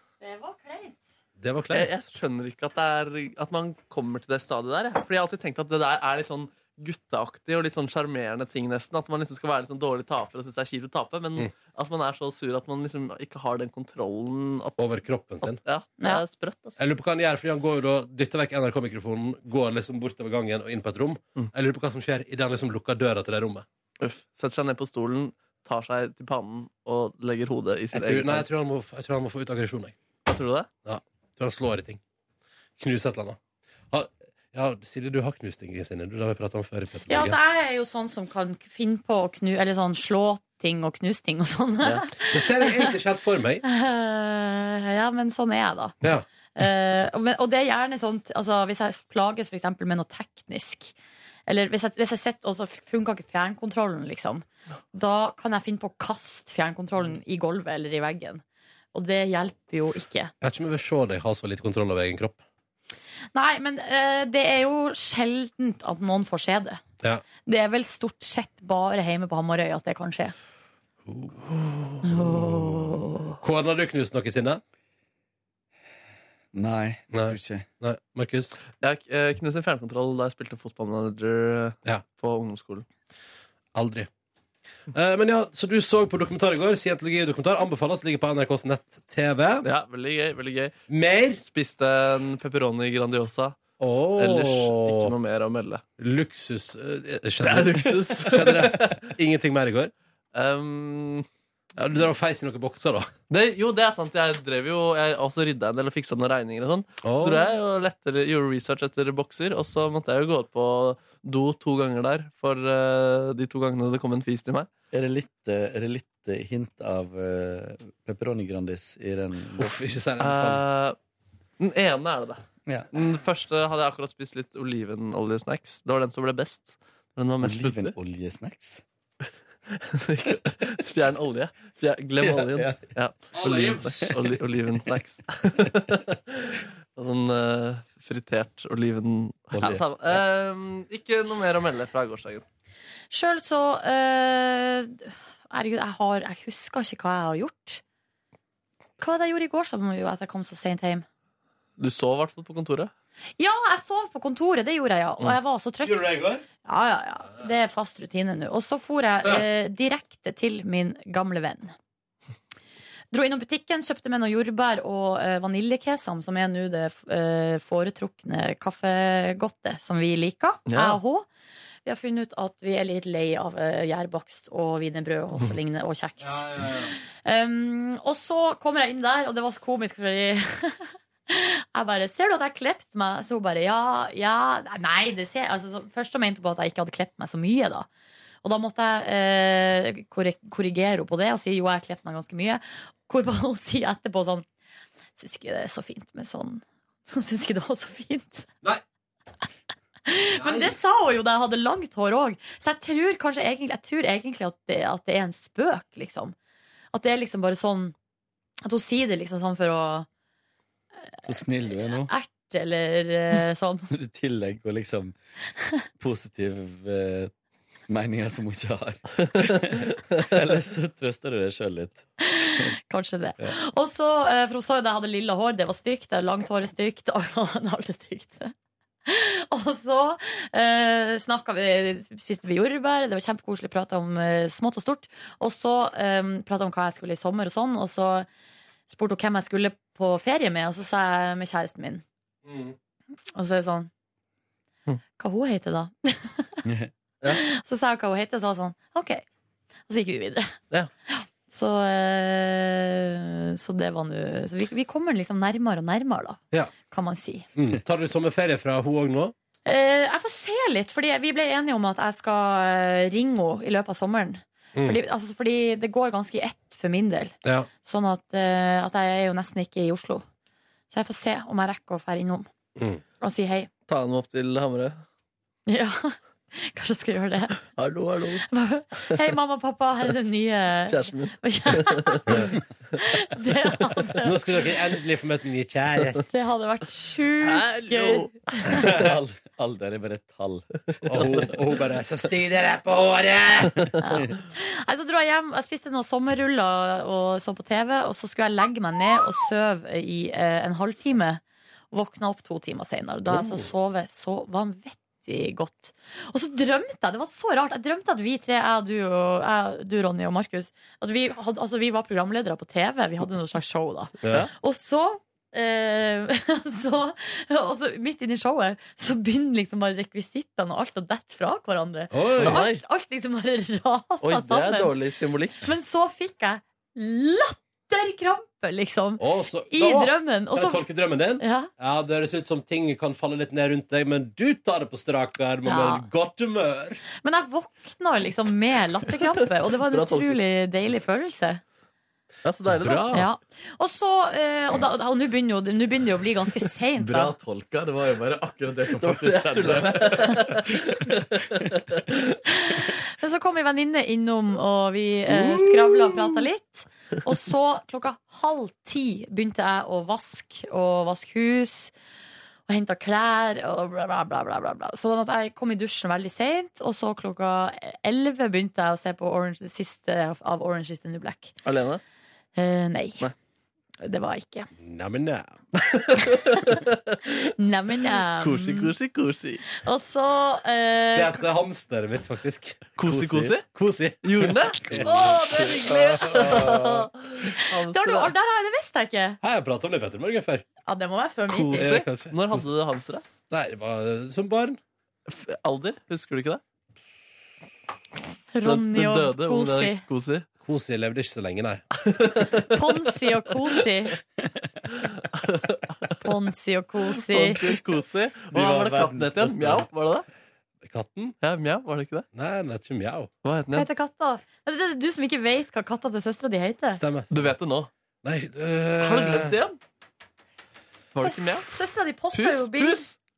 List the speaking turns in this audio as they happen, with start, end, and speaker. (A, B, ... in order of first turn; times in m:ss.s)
0:00.2-0:01.0 A
0:01.4-0:02.0 B
0:01.7-0:14.8 C
0:14.8-0:15.6 B
0:15.4-0:16.8 C
0:16.8-0:23.6 B
0:24.0-0:28.4 C
0:27.9-0:29.9 B
0:30.2-0:30.7 C
0:30.8-0:32.0 B
0:32.8-0:33.4 B
0:33.9-0:37.4 B
0:37.1-0:42.9 A
0:42.3-0:43.6 B
0:43.6-0:45.9 A
0:46.5-0:50.9 A
0:51.5-0:58.4 A
0:58.9-1:00.3 A
1:00.4-1:02.4 B
1:03.3-1:06.8 A
1:07.4-1:10.3 A
1:11.0-1:14.6 B
1:12.0-1:13.4 A
1:16.5-1:17.6 D
1:17.1-1:18.6 B
1:18.8-1:22.8 C
1:23.7-1:24.1 B
1:24.9-1:29.6 B
1:29.6-1:30.8 C
1:30.9-1:31.4 B
1:31.4-1:33.6 C
1:33.8-1:35.1 B
1:34.2-1:35.8 C
1:36.0-1:39.9 B
1:37.4-1:39.1 C
1:40.3-1:41.3 C
1:41.8-1:43.1 B
1:43.3-1:54.7 C
1:47.0-1:47.4 B
1:54.9-1:59.8 D
1:59.6-2:00.6 B
2:00.2-2:01.0 C
2:01.6-2:07.9 C
2:07.4-2:08.8 D
2:09.7-2:22.4 C
2:12.2-2:12.9 D
2:13.3-2:14.1 B
2:19.5-2:20.1 D
2:23.1-2:27.8 A
2:29.0-2:31.0 A
2:31.8-2:32.9 C
2:33.4-2:36.1 A
2:35.8-2:36.4 B
2:36.6-2:41.7 A
2:43.1-2:51.2 A
2:50.7-2:51.0 C
2:51.8-3:07.9 A
2:56.2-2:56.9 B
3:08.4-3:14.4 A
3:15.1-3:18.5 A
3:20.0-3:26.3 A
3:20.3-3:20.7 B
3:26.9-3:27.9 A
3:28.6-3:30.1 A
3:31.2-3:32.1 D
3:31.6-3:33.9 A
3:33.9-3:35.1 D
3:36.0-3:37.3 D
3:37.9-3:42.7 D
3:42.2-3:48.5 A
3:49.0-3:58.3 A
3:58.9-4:02.0 A
4:02.4-4:02.8 B
4:03.3-4:03.9 A
4:05.2-4:06.6 A
4:06.6-4:06.9 D
4:07.2-4:09.2 A
4:09.9-4:10.6 A
4:11.1-4:17.5 A
4:17.6-4:19.3 B
4:19.6-4:30.2 A
4:27.4-4:27.7 B
4:30.9-4:32.5 A
4:32.8-4:33.0 B
4:33.2-4:33.7 A
4:33.9-4:35.0 C
4:35.7-4:37.6 A
4:37.7-4:38.5 C
4:38.5-4:44.3 A
4:40.9-4:42.5 C
4:44.2-4:46.2 B
4:46.3-4:48.8 A
4:47.4-4:49.0 C
4:48.9-4:51.2 D
4:51.0-4:54.0 B
4:54.0-5:24.9 A
5:03.3-5:03.7 B
5:14.2-5:14.5 B
5:22.1-5:22.6 B
5:22.4-5:22.8 C
5:24.2-5:25.6 C
5:25.6-5:30.8 A
5:29.2-5:37.0 B
5:31.4-5:31.7 A
5:35.6-5:36.1 A
5:37.2-5:41.6 A
5:39.9-5:40.4 C
5:42.4-5:43.2 C
5:42.6-5:43.2 B
5:43.1-5:47.3 A
5:47.0-5:51.8 D
5:49.0-5:51.8 C
5:52.5-6:01.9 A
6:02.7-6:11.5 A
6:11.6-6:12.0 C
6:12.6-6:13.3 A
6:14.0-6:14.7 A
6:14.8-6:15.8 B
6:15.8-6:17.4 C
6:16.5-6:16.8 A
6:17.4-6:18.9 A
6:18.4-6:19.6 C
6:19.7-6:21.4 A
6:21.1-6:25.6 B
6:23.0-6:23.6 C
6:24.2-6:28.3 C
6:25.1-6:25.8 A
6:25.9-6:27.0 D
6:27.5-6:29.4 A
6:29.4-6:30.6 B
6:30.9-6:31.9 A
6:31.5-6:33.2 C
6:31.7-6:32.6 B
6:33.5-6:34.8 B
6:35.3-6:36.6 C
6:38.5-6:40.0 A
6:38.6-6:40.4 C
6:40.6-6:41.8 B
6:42.0-6:43.2 C
6:42.7-6:44.2 A
6:45.3-6:46.2 C
6:46.2-6:47.6 A
6:47.2-6:50.2 C
6:48.5-6:49.9 D
6:50.8-6:51.4 B
6:51.4-6:52.2 C
6:52.3-6:53.3 B
6:53.4-6:53.9 C
6:53.7-6:57.0 A
6:56.9-6:57.5 B
6:57.3-6:57.9 C
6:58.2-6:59.6 B
6:59.0-6:59.8 C
7:01.1-7:01.7 C
7:01.2-7:03.0 A
7:02.3-7:03.2 C